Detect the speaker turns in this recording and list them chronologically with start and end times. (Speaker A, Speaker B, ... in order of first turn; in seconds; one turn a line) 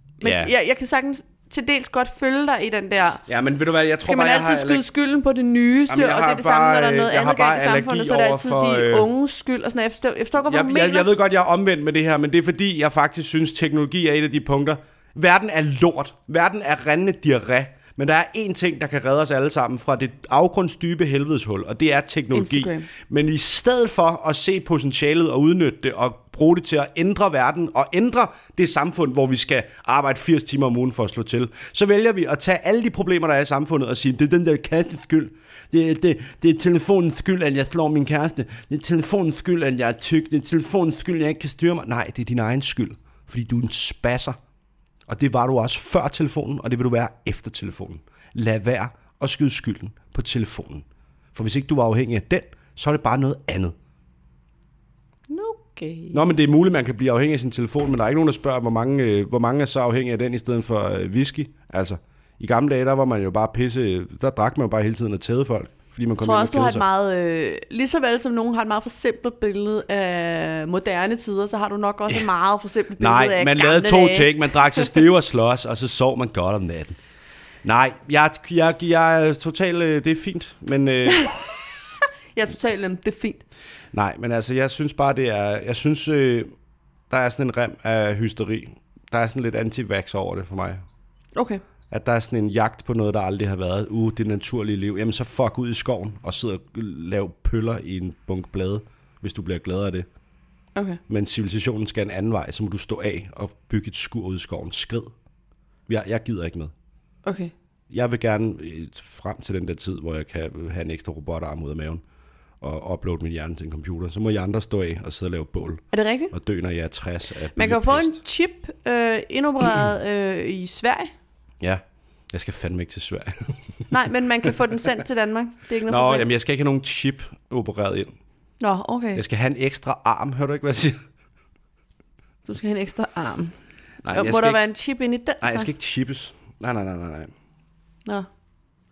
Speaker A: 0.2-3.2
Speaker B: 0.2-0.5
Speaker B: 3.3-4.8
Speaker A: 4.0-11.1
Speaker B: 5.9-9.1
Speaker B: 10.5-44.4
Speaker A: 22.3-22.9
Speaker B: 45.1-53.8
Speaker A: 55.3-56.2
Speaker B: 56.1-66.8
Speaker A: 66.2-75.0
Speaker B: 73.0-77.0
Speaker B: 77.6-81.3
Speaker A: 81.1-81.4
Speaker A: 82.3-83.4
Speaker B: 83.9-86.5
Speaker B: 87.1-90.8
Speaker A: 91.3-91.6
Speaker B: 91.9-100.1
Speaker B: 101.1-105.1
Speaker B: 105.9-106.7
Speaker A: 107.2-107.5
Speaker B: 107.9-112.0
Speaker B: 112.6-118.2
Speaker A: 115.9-116.3
Speaker A: 117.5-121.1
Speaker B: 121.6-124.5
Speaker A: 123.9-126.3
Speaker B: 125.9-128.1
Speaker A: 128.6-129.2
Speaker B: 129.1-131.0
Speaker A: 132.5-133.6
Speaker B: 134.0-134.7
Speaker A: 134.1-135.7
Speaker B: 135.4-137.3